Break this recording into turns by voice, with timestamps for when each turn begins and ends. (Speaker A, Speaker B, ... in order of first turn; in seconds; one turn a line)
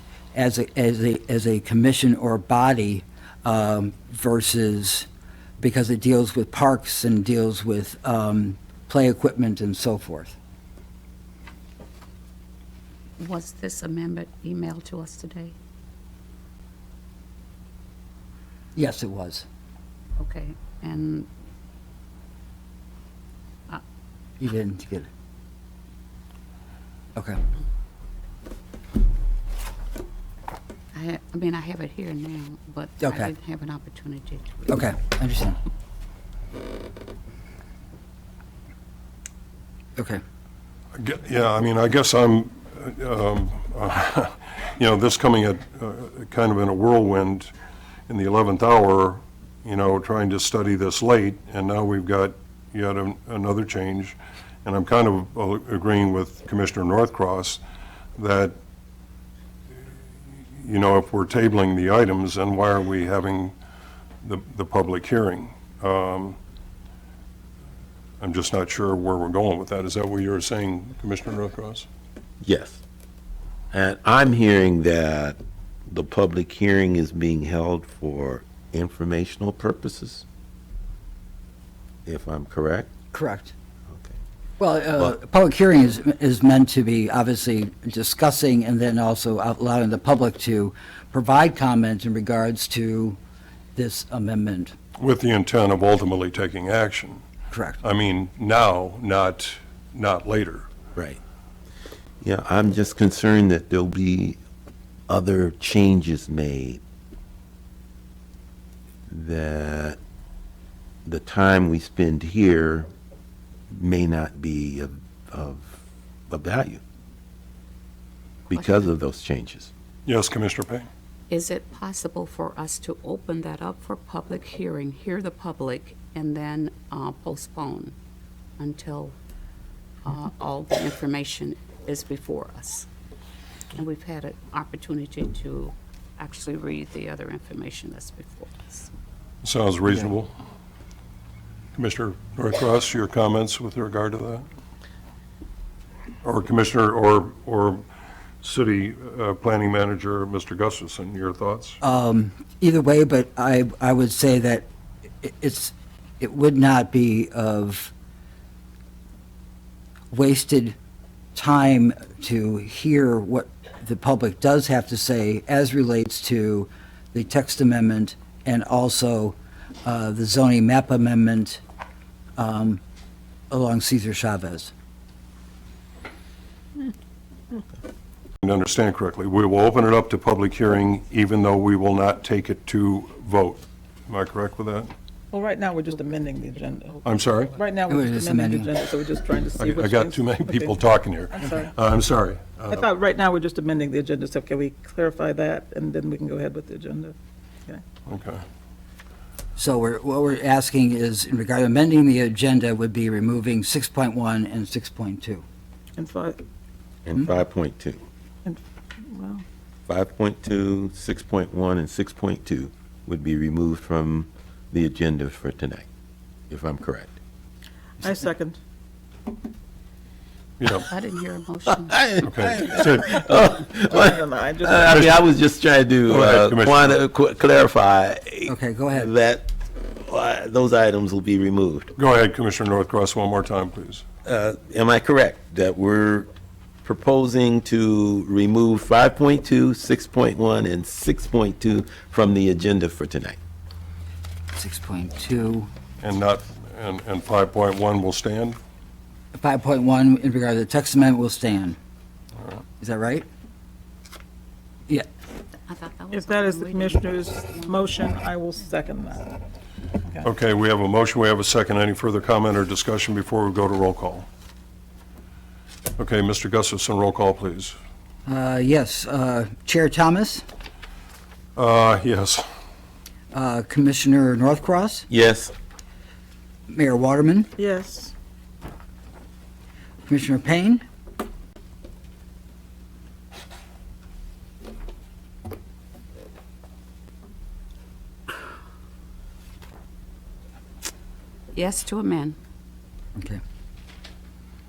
Speaker A: 0.3-5.1
Speaker A: 5.6-10.4
Speaker B: 13.2-15.6
Speaker A: 18.8-19.5
Speaker B: 20.2-21.3
Speaker A: 24.4-25.1
Speaker B: 30.9-34.8
Speaker A: 33.0-33.3
Speaker A: 34.7-35.6
Speaker C: 40.9-47.5
Speaker C: 48.1-57.6
Speaker C: 58.2-58.6
Speaker C: 60.6-63.5
Speaker C: 64.2-66.4
Speaker C: 68.2-71.9
Speaker D: 72.4-72.8
Speaker D: 73.7-80.2
Speaker D: 82.1-82.9
Speaker A: 83.1-83.5
Speaker A: 84.6-93.2
Speaker A: 93.8-94.7
Speaker C: 95.0-97.2
Speaker A: 97.5-97.8
Speaker C: 97.8-100.7
Speaker D: 101.0-101.2
Speaker D: 102.2-104.4
Speaker D: 105.1-106.8
Speaker D: 109.1-110.0
Speaker D: 111.0-112.9
Speaker D: 113.7-116.8
Speaker B: 118.5-118.9
Speaker D: 118.5-119.7
Speaker C: 120.1-120.9
Speaker B: 121.3-128.0
Speaker B: 128.6-129.2
Speaker B: 130.0-132.9
Speaker B: 133.8-138.9
Speaker C: 139.4-140.3
Speaker C: 141.8-144.5
Speaker C: 146.2-147.8
Speaker C: 148.4-151.8
Speaker A: 151.8-154.7
Speaker A: 155.2-157.9
Speaker A: 160.1-160.8
Speaker A: 161.3-171.6
Speaker A: 172.4-172.8
Speaker A: 173.5-174.7
Speaker C: 178.4-184.9
Speaker E: 185.3-187.0
Speaker C: 187.1-187.6
Speaker E: 187.6-191.7
Speaker A: 187.9-188.7
Speaker C: 189.6-192.8
Speaker E: 192.7-197.2
Speaker C: 198.1-198.4
Speaker A: 199.6-205.4
Speaker E: 206.0-206.4
Speaker D: 207.1-208.0
Speaker E: 208.4-209.4
Speaker D: 209.9-215.9
Speaker D: 216.5-217.2
Speaker E: 218.0-218.6
Speaker C: 220.6-220.9
Speaker B: 220.9-222.0
Speaker D: 221.7-231.9
Speaker C: 222.2-223.1
Speaker E: 223.8-225.2
Speaker C: 226.1-227.0
Speaker A: 228.5-229.1
Speaker C: 232.0-234.1
Speaker D: 234.2-236.3
Speaker D: 236.8-243.4
Speaker A: 244.6-245.7
Speaker C: 246.0-248.6
Speaker A: 249.3-251.8
Speaker A: 252.8-253.2
Speaker B: 255.7-258.0
Speaker E: 256.1-259.4
Speaker C: 260.2-264.3
Speaker C: 266.0-267.8
Speaker A: 268.3-270.4
Speaker C: 271.6-272.4
Speaker A: 273.3-275.1
Speaker D: 275.1-275.5
Speaker A: 276.7-277.5
Speaker E: 277.6-278.1
Speaker A: 280.1-280.8
Speaker B: 291.5-292.4